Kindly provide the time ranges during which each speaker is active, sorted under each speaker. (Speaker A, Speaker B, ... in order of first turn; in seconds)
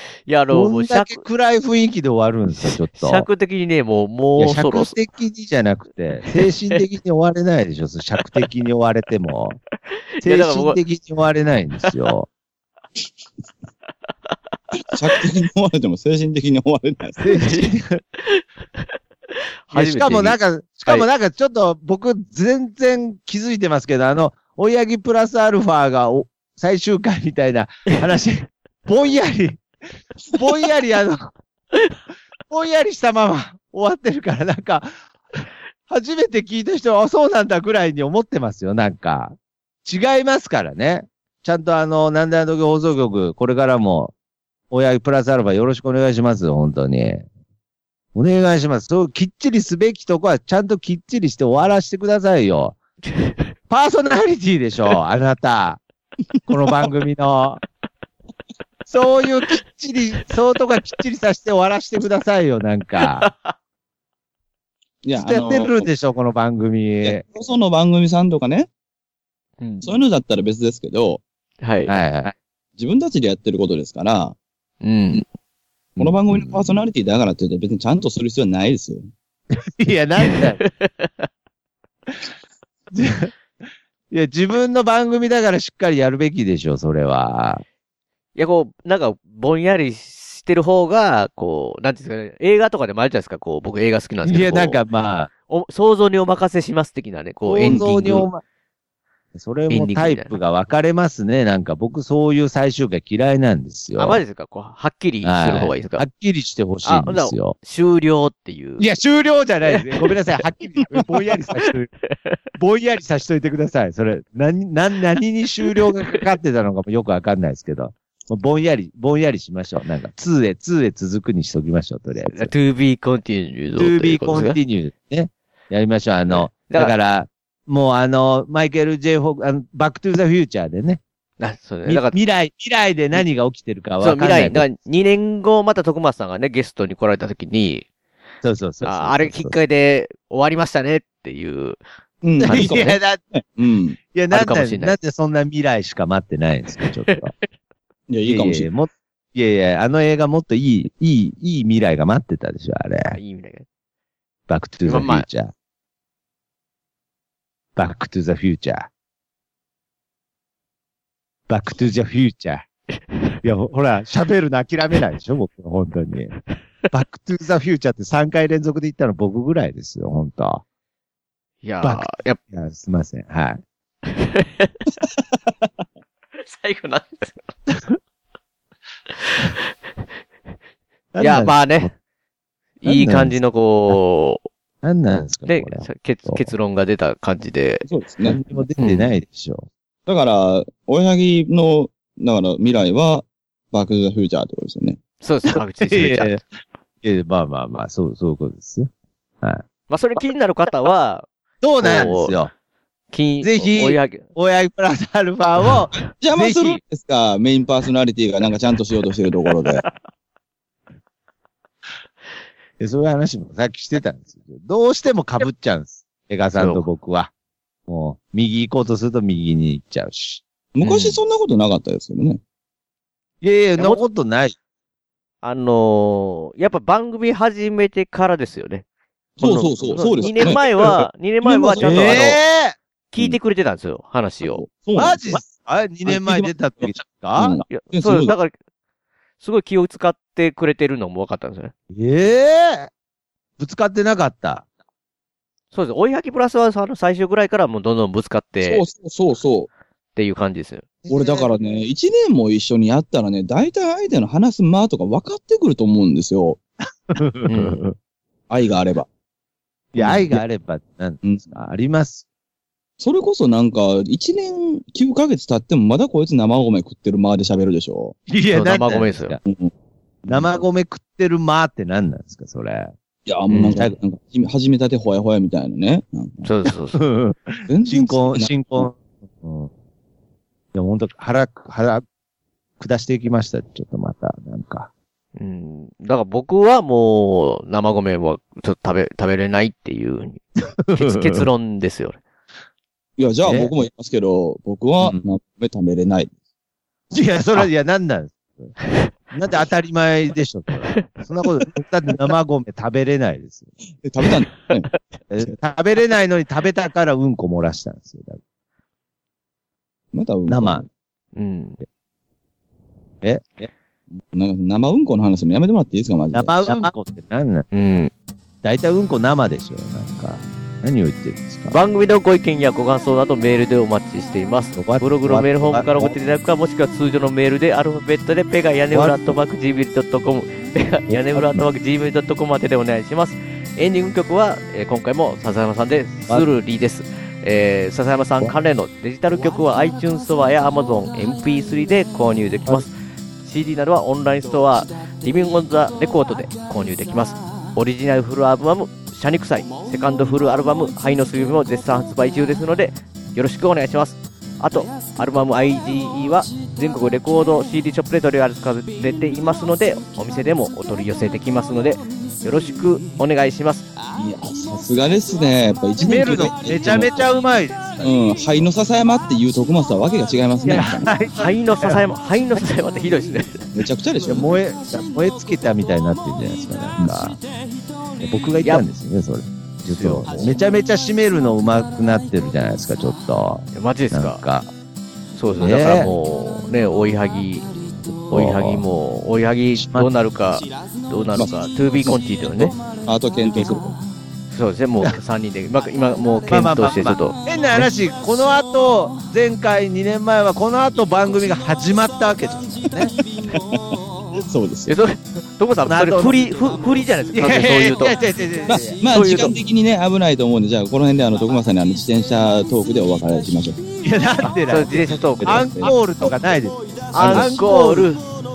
Speaker A: 0.3-1.2, 2.6-5.0, 10.2-10.8, 17.3-18.9, 19.7-21.1, 53.1-53.5, 63.0-63.5, 69.6-69.9, 71.6-71.9, 74.8-75.2, 80.2-81.3, 88.4-94.8, 95.5-98.3, 99.7-100.4, 104.0-106.1, 106.8-108.9, 109.6-110.2, 111.5-112.4, 122.3-124.6, 126.3-126.9, 131.4-132.2, 134.0-137.8, 138.8-141.8, 142.4-143.0, 144.3-145.0, 153.1-153.7, 154.8-155.3, 171.6-172.4, 174.1-174.7, 176.4-177.4, 179.2-179.5, 181.2-181.9, 182.8-184.4, 185.4-187.8, 188.8-189.1, 195.2-196.4, 199.9-201.3, 201.8-202.4, 203.1-204.2, 216.6-216.9, 220.8-221.2, 225.4-228.8, 229.4-232.4, 233.1-234.6, 237.7-238.5, 239.4-241.7, 245.7-248.8, 250.2-250.8, 257.5-257.9, 268.5-269.4, 273.5-273.8, 276.4-277.0, 285.4-290.4, 290.9-292.2, 311.4-311.8, 317.7-318.1, 321.7-342.9, 343.4-363.9, 371.4-373.7, 379.9-380.5, 383.7-384.4, 385.4-387.7, 388.3-392.7, 394.5-397.4, 404.9-408.1, 409.0-409.6, 414.4-415.9, 417.1-418.2
Speaker B: 0.5-3.3, 4.4-9.6, 10.2-12.3, 17.2-18.0, 19.7-29.6, 30.3-31.3, 32.5-35.0, 35.9-44.1, 44.7-47.3, 48.1-52.8, 53.7-55.8, 56.5-57.6, 58.9-63.3, 65.2-67.2, 71.9-72.3, 76.0-76.8, 79.5-80.6, 82.9-83.3, 84.1-87.6, 94.2-95.3, 97.4-98.4, 99.3-104.2, 105.2-107.5, 108.8-111.9, 112.6-122.5, 123.7-131.0, 131.9-134.7, 138.4-139.6, 142.4-143.2, 144.1-147.3, 148.2-153.2, 154.5-155.5, 157.8-158.9, 161.5-162.7, 163.4-166.3, 166.9-170.6, 171.8-173.6, 181.1-181.9, 182.8-184.0, 184.8-186.5, 188.2-189.7, 195.5-198.9, 201.6-202.5, 203.4-206.8, 212.8-217.3, 217.9-220.4, 223.4-224.6, 230.2-230.6, 231.8-232.8, 234.9-237.6, 241.9-242.9, 243.6-244.7, 251.0-251.5, 257.1-257.9, 259.9-262.2, 268.3-269.4, 270.3-272.9, 276.9-279.7, 280.7-282.0, 282.8-284.9, 290.9-291.5, 293.4-293.7, 297.1-298.8, 299.3-303.7, 305.3-308.4, 310.5-310.9, 313.2-313.7, 316.3-317.6, 318.6-321.8, 324.8-326.1, 328.9-329.4, 331.1-331.6, 366.0-368.1, 370.6-372.0, 374.2-377.4, 378.2-384.7, 385.6-386.1, 388.1-388.9, 389.8-390.1, 396.5-403.1, 405.9-406.4, 407.3-409.0, 414.0-418.1
Speaker C: 14.9-17.2, 65.0-65.9, 67.0-68.7, 69.8-71.2, 72.8-74.4, 76.0-79.1, 97.6-98.2, 142.2-144.0, 148.1-148.7, 187.8-188.4, 190.1-195.0, 206.2-209.8, 220.7-222.4, 229.4-232.3, 234.4-235.4, 236.1-238.3, 248.6-249.7, 251.1-256.6, 258.5-259.1, 260.0-260.4, 261.2-261.6, 263.0-268.2, 269.4-269.7, 273.3-276.4, 277.7-278.9, 293.2-296.3, 304.0-304.9, 310.1-310.9, 314.1-316.6, 364.1-367.2, 368.0-371.1, 373.7-374.6, 391.4-394.0, 403.1-404.9, 408.7-413.8, 415.4-416.0, 417.2-417.5